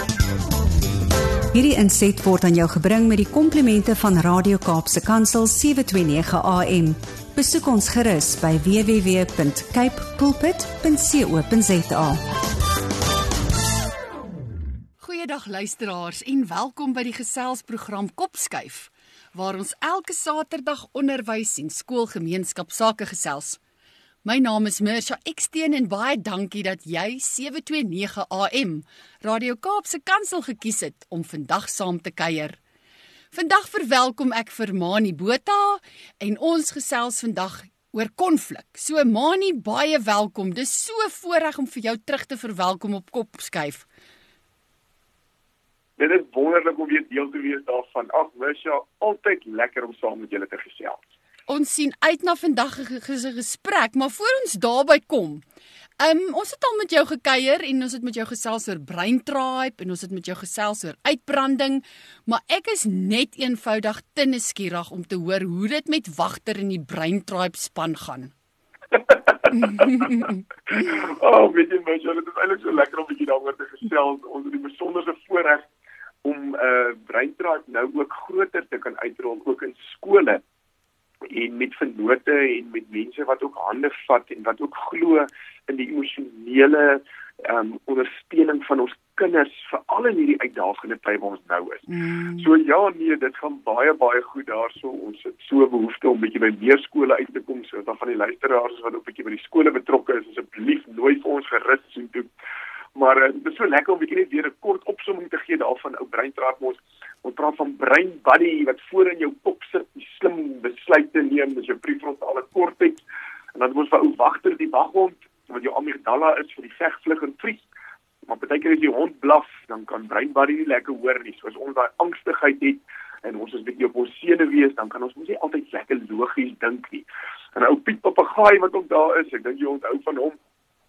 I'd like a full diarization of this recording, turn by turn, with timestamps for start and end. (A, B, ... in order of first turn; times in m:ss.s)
0:01.5-0:12.2 A
0:15.0-0:23.6 B
0:24.2-0:32.6 B
0:33.3-0:43.8 B
0:46.0-0:51.0 C
0:51.5-0:55.4 B
0:56.0-1:08.3 B
1:09.1-1:15.7 C
1:09.6-1:10.4 B
1:16.2-1:20.4 C
1:21.3-1:42.3 C
1:31.9-1:32.4 B
1:43.0-1:53.0 C
1:53.5-1:57.7 C
1:58.3-2:10.4 C